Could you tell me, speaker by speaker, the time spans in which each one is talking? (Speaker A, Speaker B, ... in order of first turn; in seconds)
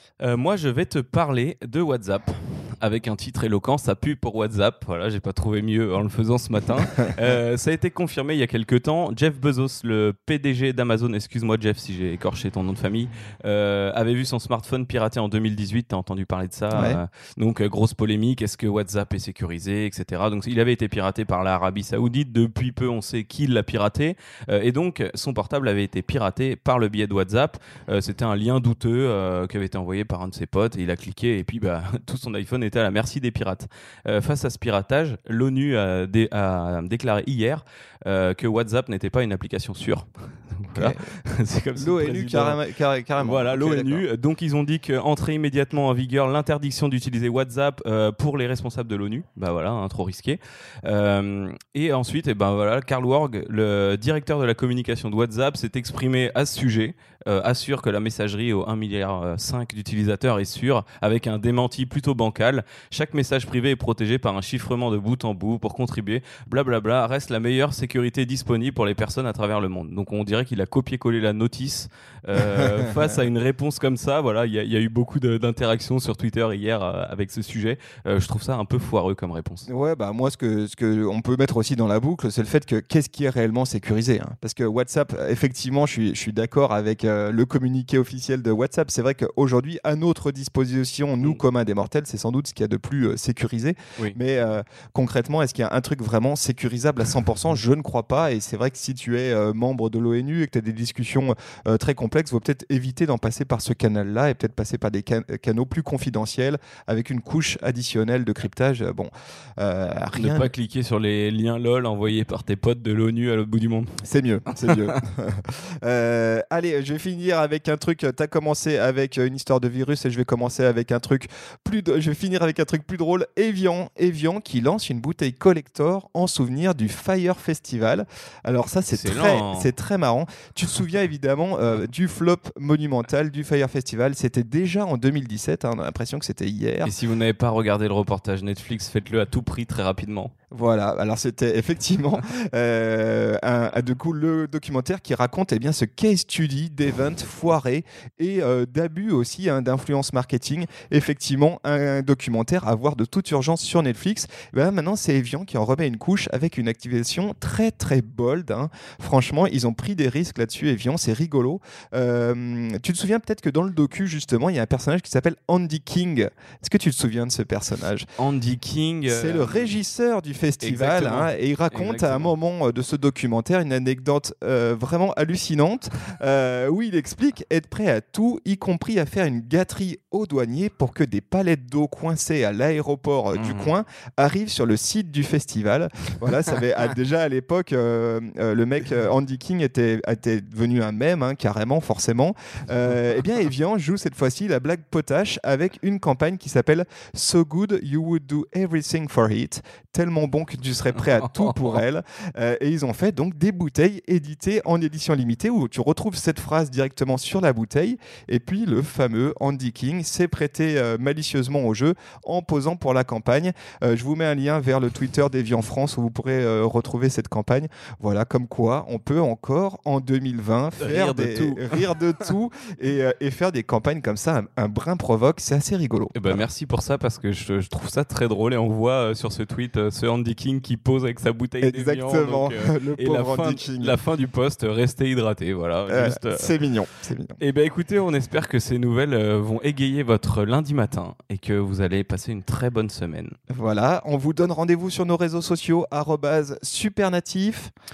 Speaker A: 0.2-42.6, 43.2-79.7, 110.1-115.0, 128.9-129.7, 136.8-140.3, 168.2-169.8, 170.6-172.3, 183.3-183.7, 201.0-201.8, 220.8-222.3, 226.1-236.5, 237.4-243.3
Speaker B: 16.7-17.0, 40.7-41.0, 41.7-44.0, 72.3-73.1, 79.7-110.5, 114.0-136.9, 140.5-168.0, 169.1-226.1, 231.6-234.0, 235.9-237.4, 243.5-247.7